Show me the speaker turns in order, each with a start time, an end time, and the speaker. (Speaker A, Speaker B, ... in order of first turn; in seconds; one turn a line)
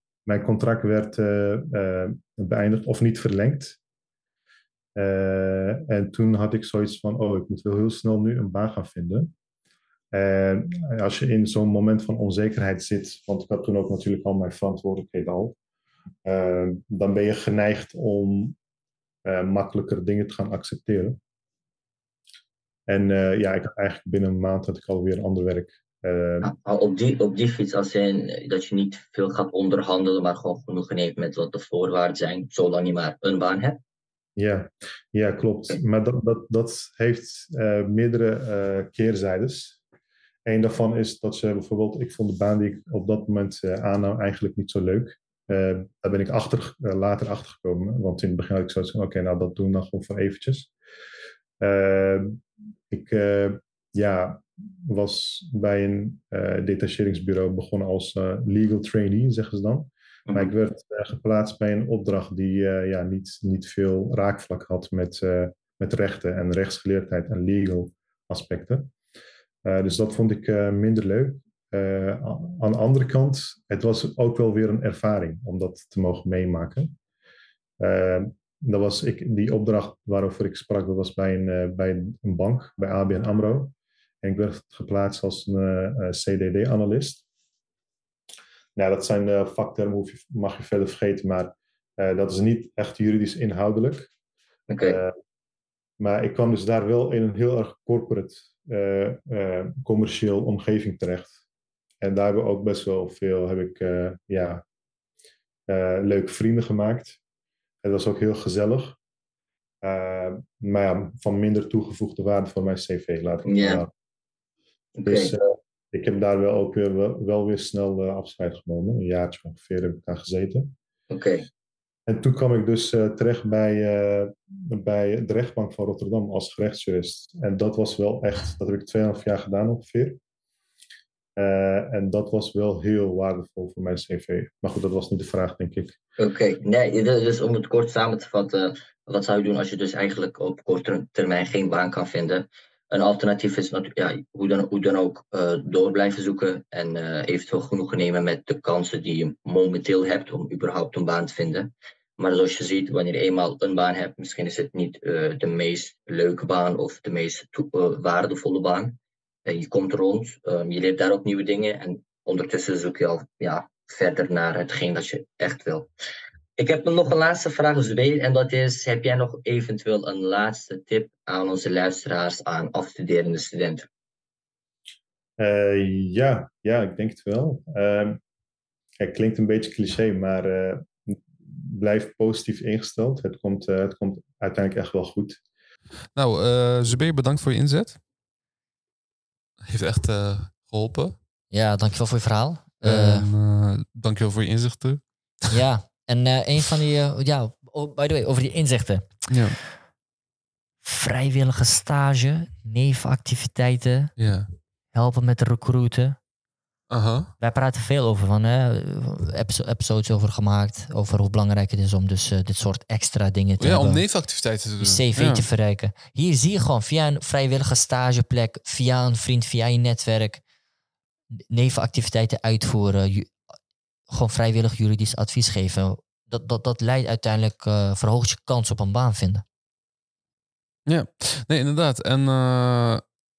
Speaker A: 0.2-3.8
Speaker A: 5.0-9.3
Speaker A: 10.1-15.6
Speaker A: 16.2-18.6
Speaker A: 19.2-21.2
Speaker A: 22.9-26.5
Speaker B: 26.4-33.8
Speaker A: 34.4-39.8
Speaker A: 40.5-50.7
Speaker A: 51.6-52.4
Speaker A: 52.9-68.9
Speaker A: 69.6-76.9
Speaker A: 77.8-87.2
Speaker A: 88.8-94.1
Speaker B: 94.7-95.0
Speaker A: 94.8-95.1
Speaker A: 96.0-101.3
Speaker A: 102.0-104.6
Speaker A: 105.7-107.2
Speaker A: 107.8-109.0
Speaker A: 109.8-113.9
Speaker B: 113.5-113.8
Speaker B: 115.0-115.3
Speaker A: 115.0-120.7
Speaker B: 121.1-121.5
Speaker A: 122.1-130.2
Speaker A: 131.4-135.9
Speaker B: 136.2-165.9
Speaker B: 166.6-173.9
Speaker A: 175.4-178.2
Speaker A: 179.0-185.4
Speaker C: 186.1-188.0
Speaker C: 189.6-191.2
Speaker D: 191.5-193.3
Speaker C: 192.8-195.5
Speaker D: 195.5-199.2
Speaker C: 199.3-199.6
Speaker D: 200.8-204.1
Speaker C: 204.2-204.5
Speaker D: 204.9-206.2
Speaker C: 206.9-207.3
Speaker D: 207.4-214.0
Speaker C: 213.6-215.4
Speaker D: 214.8-220.4
Speaker D: 221.5-223.3
Speaker D: 224.1-229.4
Speaker C: 230.9-233.0